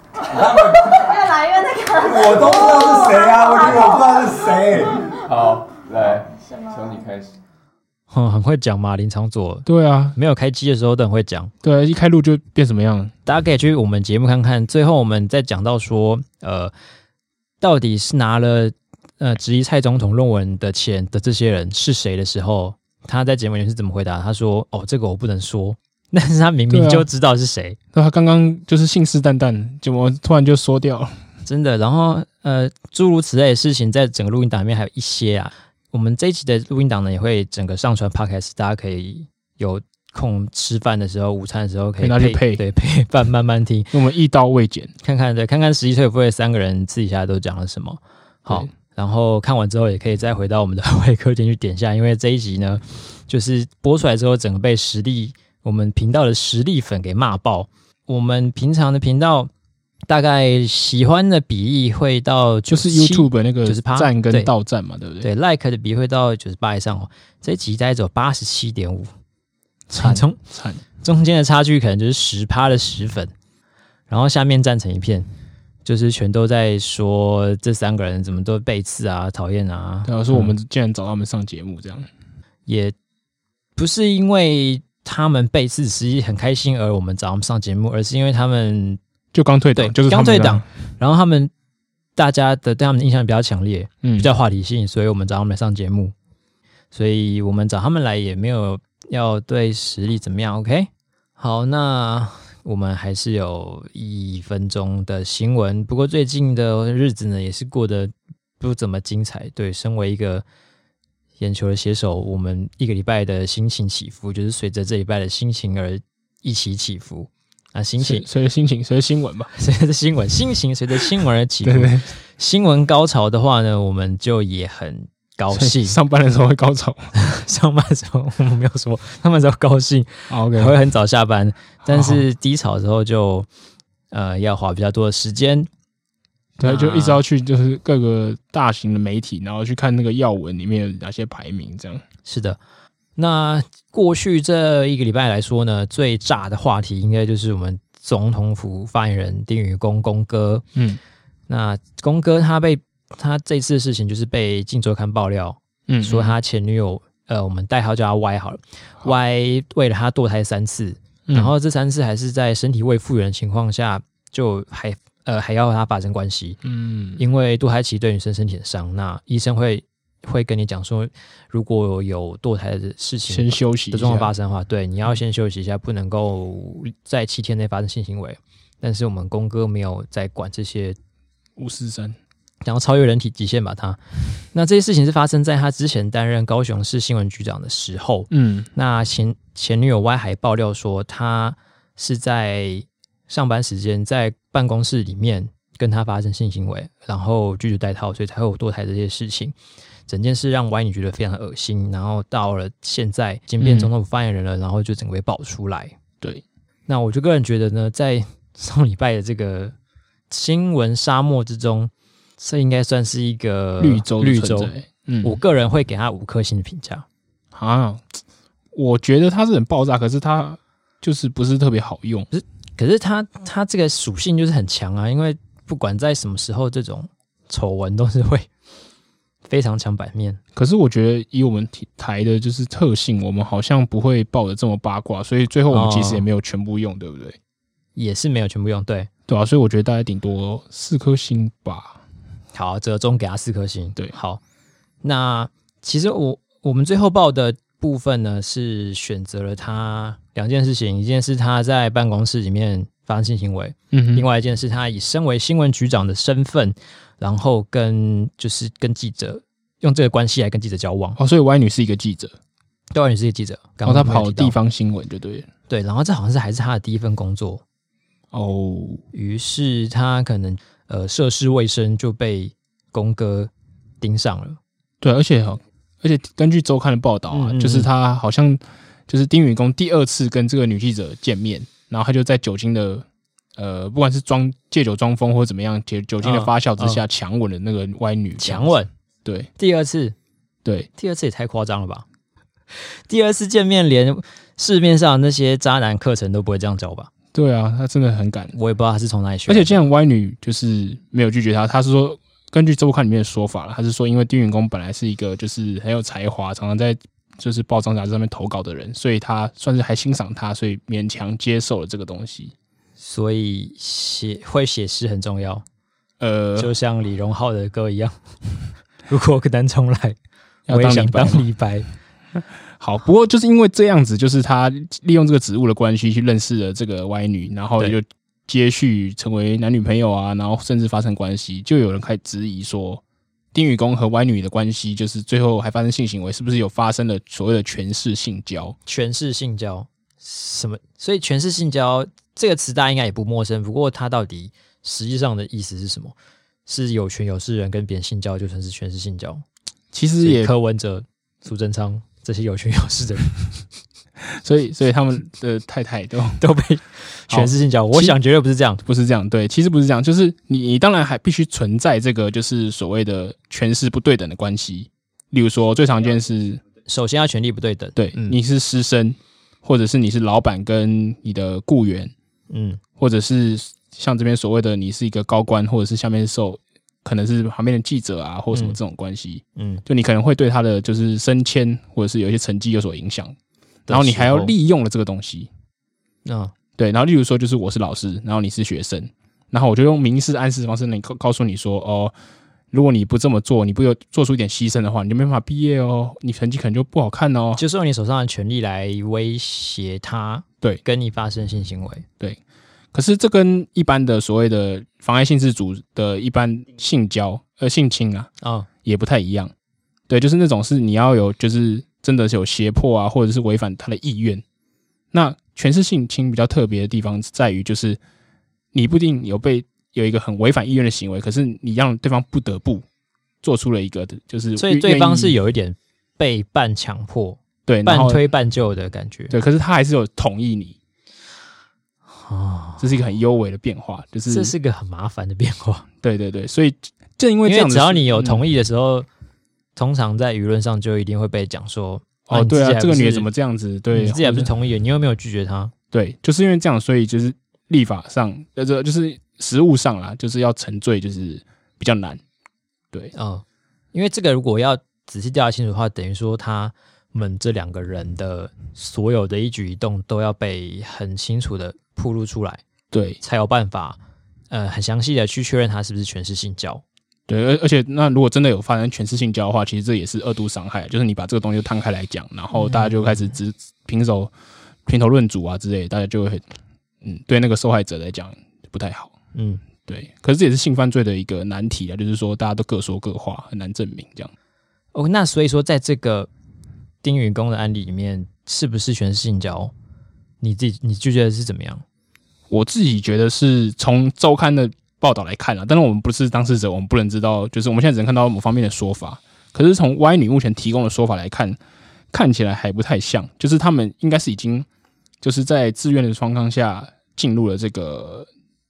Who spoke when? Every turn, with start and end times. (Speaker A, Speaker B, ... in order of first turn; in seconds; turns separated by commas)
Speaker A: 0.2-1.1, Speaker B: 0.5-0.9, Speaker C: 0.7-5.2, Speaker A: 2.0-5.1, Speaker B: 4.9-7.3, Speaker C: 6.0-7.1, Speaker D: 8.1-11.5, Speaker E: 9.7-10.2, Speaker E: 11.6-13.1, Speaker D: 13.2-16.7, Speaker D: 17.6-27.8, Speaker E: 26.7-27.1, Speaker E: 27.9-31.2, Speaker D: 31.4-43.9, Speaker E: 42.0-42.6, Speaker E: 43.9-44.9, Speaker D: 45.0-59.5, Speaker D: 60.1-64.5, Speaker E: 62.7-65.3, Speaker D: 65.2-69.1, Speaker E: 69.9-70.8, Speaker D: 70.0-70.4, Speaker D: 71.0-73.3, Speaker D: 74.1-75.3, Speaker D: 75.8-80.5, Speaker E: 80.0-82.1, Speaker D: 82.7-82.9, Speaker D: 83.8-89.0, Speaker E: 89.3-90.6, Speaker D: 89.7-91.5, Speaker D: 92.2-96.1, Speaker E: 94.0-94.3, Speaker D: 96.9-110.4, Speaker D: 111.4-118.3, Speaker E: 118.0-119.5, Speaker D: 119.5-126.0, Speaker E: 121.6-122.1, Speaker E: 125.5-127.1, Speaker D: 127.1-133.5, Speaker E: 130.3-130.8, Speaker E: 131.8-132.2, Speaker D: 134.1-135.7, Speaker E: 136.6-142.0, Speaker D: 136.6-137.2, Speaker D: 142.2-142.6, Speaker D: 143.2-150.6, Speaker E: 150.7-151.0, Speaker D: 151.5-166.6, Speaker E: 155.9-156.3, Speaker E: 161.3-161.5, Speaker E: 166.6-167.2, Speaker D: 167.2-181.0, Speaker E: 173.3-174.3, Speaker E: 181.6-182.2, Speaker D: 182.6-184.0, Speaker D: 184.5-199.5, Speaker E: 188.3-188.7, Speaker D: 200.1-205.9, Speaker E: 203.6-203.9, Speaker D: 206.9-209.7, Speaker D: 210.3-217.0, Speaker E: 213.8-215.4, Speaker E: 217.5-218.2, Speaker E: 218.7-222.3, Speaker D: 222.3-228.5, Speaker D: 229.5-230.4, Speaker E: 230.6-237.4, Speaker D: 235.7-236.2, Speaker D: 237.9-239.1, Speaker E: 239.3-242.0, Speaker D: 242.5-244.4, Speaker D: 245.0-261.2, Speaker E: 253.9-254.2, Speaker E: 261.2-262.3, Speaker D: 262.9-264.5, Speaker E: 263.8-265.5, Speaker D: 265.7-267.6, Speaker E: 268.3-269.0, Speaker D: 269.1-274.6, Speaker E: 275.0-283.0, Speaker D: 277.3-277.9, Speaker E: 283.6-288.7, Speaker D: 286.2-287.0, Speaker D: 288.4-288.9, Speaker D: 289.6-290.1, Speaker E: 290.6-290.9, Speaker D: 291.0-292.0, Speaker D: 293.1-297.1, Speaker E: 297.3-298.5, Speaker D: 298.5-299.8, Speaker E: 299.5-312.5, Speaker D: 313.0-315.6, Speaker E: 316.2-316.7, Speaker D: 316.6-318.1, Speaker D: 319.1-320.2, Speaker E: 320.7-321.4, Speaker D: 320.7-321.9, Speaker E: 322.8-333.0, Speaker E: 333.5-338.8, Speaker D: 338.9-346.1, Speaker D: 346.6-349.4, Speaker E: 349.9-350.5, Speaker D: 350.2-353.3, Speaker E: 354.2-356.4, Speaker D: 356.4-358.8, Speaker E: 357.3-358.2, Speaker E: 358.8-366.6, Speaker D: 366.9-368.4, Speaker E: 368.0-372.1, Speaker D: 372.5-372.8, Speaker E: 373.0-383.3, Speaker D: 378.5-378.8, Speaker D: 379.6-379.8, Speaker D: 383.9-384.5, Speaker E: 383.9-385.5, Speaker D: 386.2-386.5, Speaker E: 386.8-392.1, Speaker E: 392.7-397.6, Speaker D: 397.6-402.0, Speaker E: 402.9-408.3, Speaker D: 408.4-408.7, Speaker E: 408.8-409.5, Speaker E: 410.1-414.4, Speaker E: 415.1-418.0, Speaker E: 418.7-422.8, Speaker E: 423.4-425.3, Speaker D: 424.6-429.4, Speaker E: 427.7-428.2, Speaker E: 429.3-430.8, Speaker D: 432.1-432.9, Speaker E: 432.8-434.5, Speaker D: 434.3-435.9, Speaker E: 436.0-438.4, Speaker D: 437.4-439.1, Speaker D: 439.8-443.3, Speaker E: 442.3-444.5, Speaker D: 443.9-445.7, Speaker E: 445.9-452.2, Speaker D: 453.1-462.6, Speaker E: 462.9-463.2, Speaker D: 463.2-464.0, Speaker D: 464.5-466.8, Speaker E: 467.3-474.3, Speaker D: 472.5-473.3, Speaker E: 474.9-476.5, Speaker E: 477.0-479.1, Speaker D: 479.3-479.6, Speaker E: 479.9-484.3, Speaker D: 484.9-486.3, Speaker D: 487.0-489.7, Speaker D: 490.4-491.8, Speaker E: 492.5-501.6, Speaker E: 502.1-504.7, Speaker E: 505.2-508.3